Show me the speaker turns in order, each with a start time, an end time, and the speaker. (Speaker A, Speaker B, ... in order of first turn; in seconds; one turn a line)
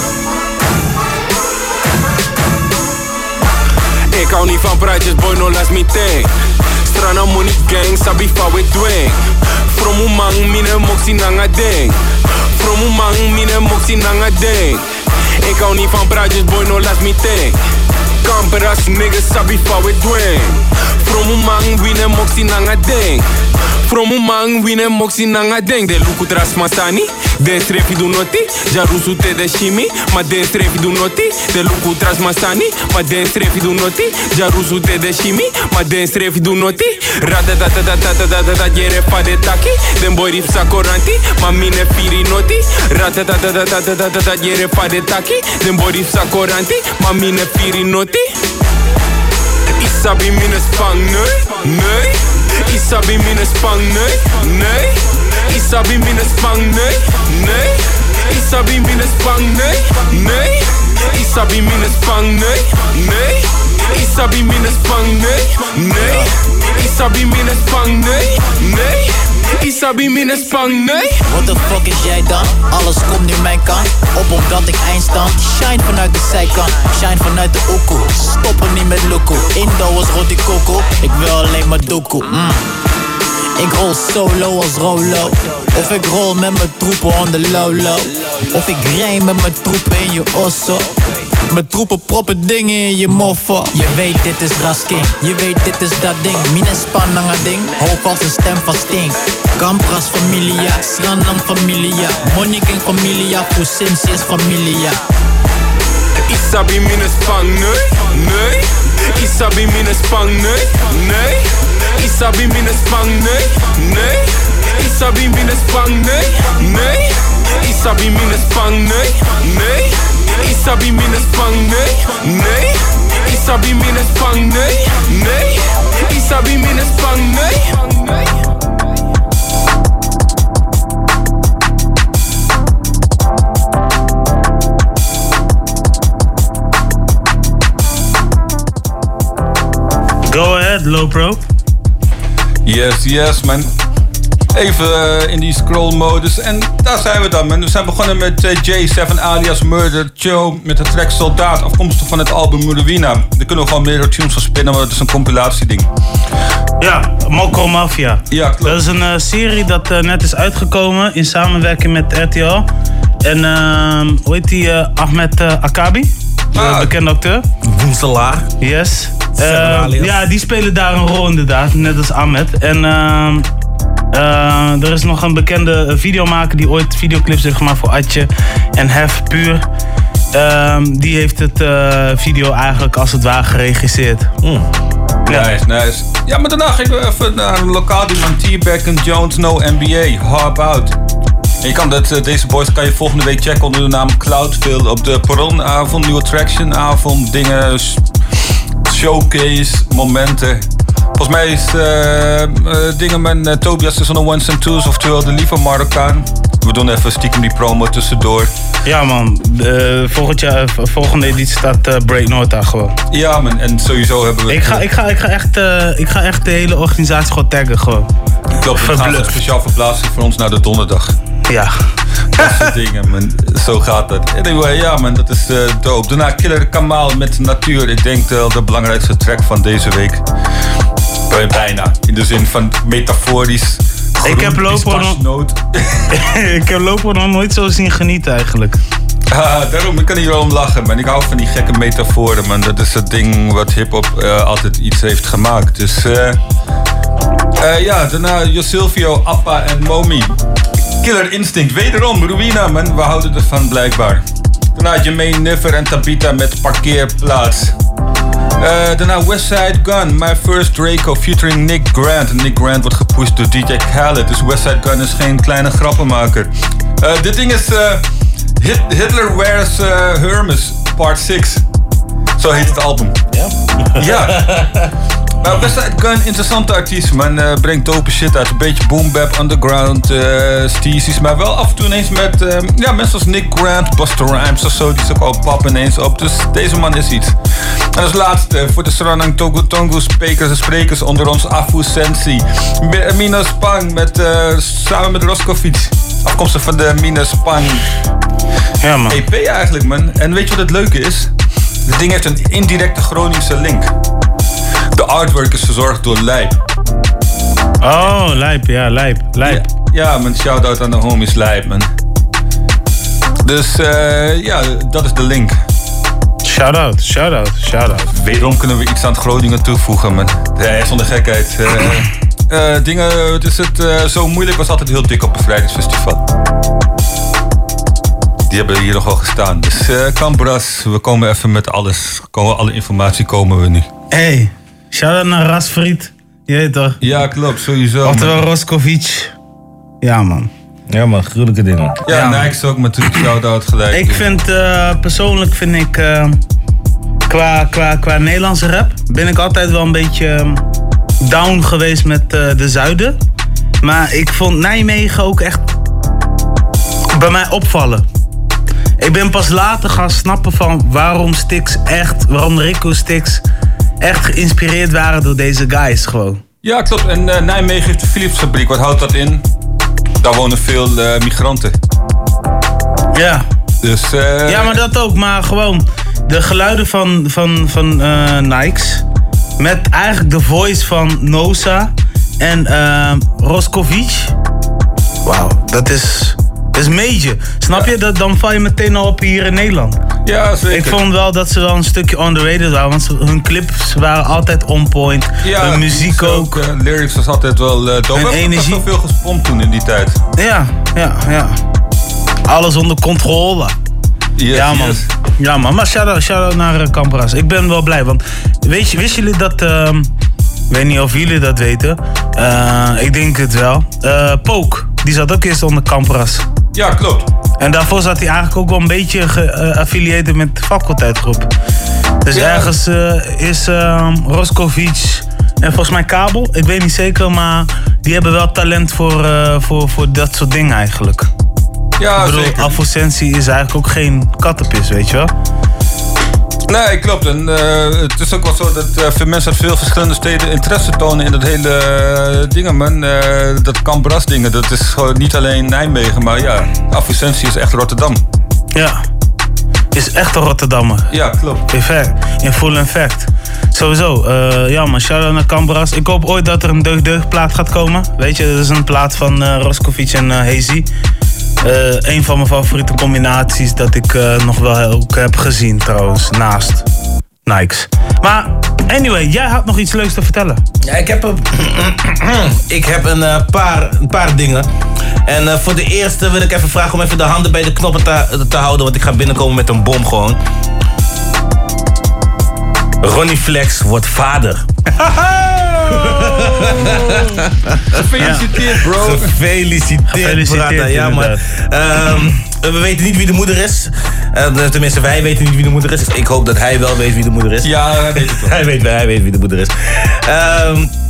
Speaker A: 4.1-6.3
Speaker A: 6.8-12.0
Speaker A: 12.6-14.8
Speaker A: 15.4-17.6
Speaker A: 18.2-23.2
Speaker A: 23.8-48.3
Speaker A: 49.8-71.1
Speaker B: 71.3-82.6
Speaker B: 83.6-90.9
Speaker B: 91.5-105.0
Speaker A: 106.3-128.3
Speaker C: 140.3-141.4
Speaker D: 142.6-143.7
Speaker D: 144.5-155.9
Speaker C: 156.8-162.7
Speaker D: 158.3-158.8
Speaker C: 163.2-167.4
Speaker D: 166.5-166.9
Speaker E: 167.7-168.5
Speaker C: 168.6-173.4
Speaker E: 169.4-170.2
Speaker C: 174.1-179.6
Speaker C: 180.3-184.3
Speaker D: 185.3-190.9
Speaker D: 191.6-198.0
Speaker D: 198.9-200.6
Speaker D: 201.2-208.5
Speaker C: 208.8-212.9
Speaker D: 213.1-214.8
Speaker C: 214.5-218.1
Speaker D: 218.6-221.1
Speaker C: 218.8-219.4
Speaker C: 221.5-221.7
Speaker D: 222.4-230.2
Speaker D: 231.3-236.0
Speaker C: 234.2-235.2
Speaker C: 236.1-238.8
Speaker D: 239.3-246.4
Speaker D: 247.6-250.3
Speaker D: 251.0-254.2
Speaker D: 254.7-257.7
Speaker D: 258.6-266.5
Speaker D: 267.0-268.0
Speaker D: 268.6-271.6
Speaker D: 272.4-273.1
Speaker E: 273.3-274.6
Speaker D: 274.0-274.8
Speaker D: 275.4-287.3
Speaker D: 287.9-297.8
Speaker C: 298.8-299.2
Speaker D: 299.1-301.3
Speaker D: 301.9-303.9
Speaker D: 304.9-306.6
Speaker C: 307.8-309.6
Speaker D: 309.4-311.9
Speaker D: 313.4-315.6
Speaker C: 316.4-318.1
Speaker D: 318.1-326.2
Speaker D: 328.5-333.9
Speaker C: 334.1-337.0
Speaker D: 337.0-338.4
Speaker C: 338.0-339.3
Speaker C: 340.0-340.5
Speaker E: 340.9-342.0
Speaker D: 342.0-344.2
Speaker C: 342.1-342.5
Speaker C: 343.9-346.4
Speaker C: 347.3-350.6
Speaker C: 351.2-353.2
Speaker C: 353.8-355.7
Speaker C: 357.1-358.0
Speaker C: 359.0-363.4
Speaker C: 364.0-366.4
Speaker D: 366.6-369.4
Speaker D: 370.2-371.7
Speaker C: 373.1-373.4
Speaker D: 373.8-374.8
Speaker C: 374.5-379.0
Speaker C: 379.6-384.3
Speaker C: 385.2-390.0
Speaker D: 390.2-391.0
Speaker C: 390.7-396.6
Speaker D: 395.4-400.2
Speaker C: 398.1-398.8
Speaker C: 400.4-401.6
Speaker C: 402.5-403.7
Speaker D: 404.4-405.1
Speaker C: 404.5-410.1
Speaker C: 410.7-416.4
Speaker D: 416.7-417.3
Speaker C: 417.6-421.5
Speaker C: 422.2-431.3
Speaker D: 422.3-422.7
Speaker D: 432.0-432.8
Speaker C: 432.2-435.3
Speaker D: 436.7-448.2
Speaker C: 448.7-449.0
Speaker C: 449.9-451.1
Speaker D: 451.1-451.6
Speaker C: 451.7-460.9
Speaker C: 461.6-466.9
Speaker C: 467.4-470.6
Speaker E: 470.9-474.7
Speaker E: 475.3-480.4
Speaker E: 483.0-484.6
Speaker D: 485.6-487.3
Speaker E: 486.2-488.0
Speaker D: 487.9-489.3
Speaker E: 488.9-497.7
Speaker C: 490.1-491.4
Speaker D: 497.6-498.6
Speaker E: 498.4-500.9